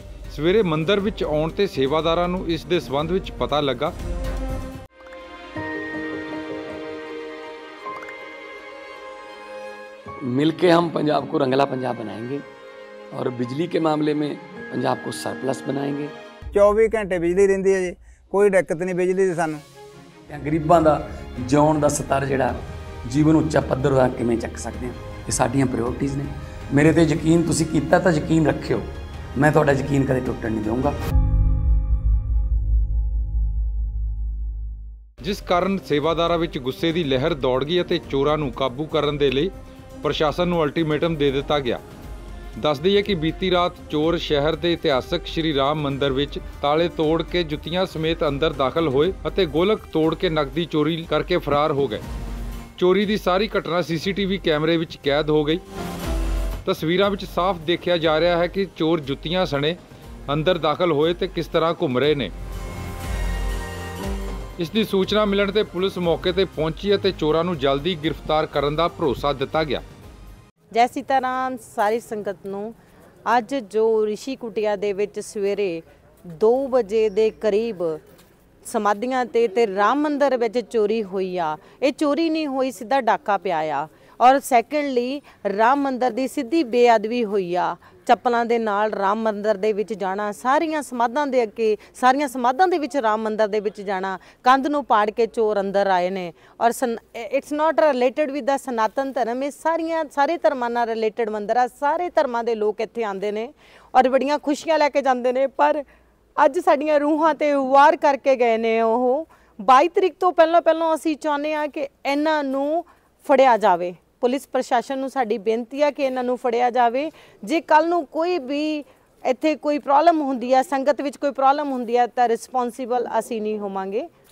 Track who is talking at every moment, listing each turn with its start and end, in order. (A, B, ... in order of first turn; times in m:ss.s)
0:00.3-0:03.9 A
0:10.2-0:12.4 B
0:13.1-0:16.1 B
0:16.5-0:19.6 C
0:20.3-0:31.0 B
0:35.2-0:39.5 A
0:40.0-0:41.8 A
0:42.6-0:52.0 A
0:52.8-0:55.6 A
0:56.6-1:02.3 A
1:04.6-1:09.8 A
1:10.7-1:12.8 D
1:13.3-1:18.0 D
1:18.6-1:45.8 D
1:46.4-2:04.1 D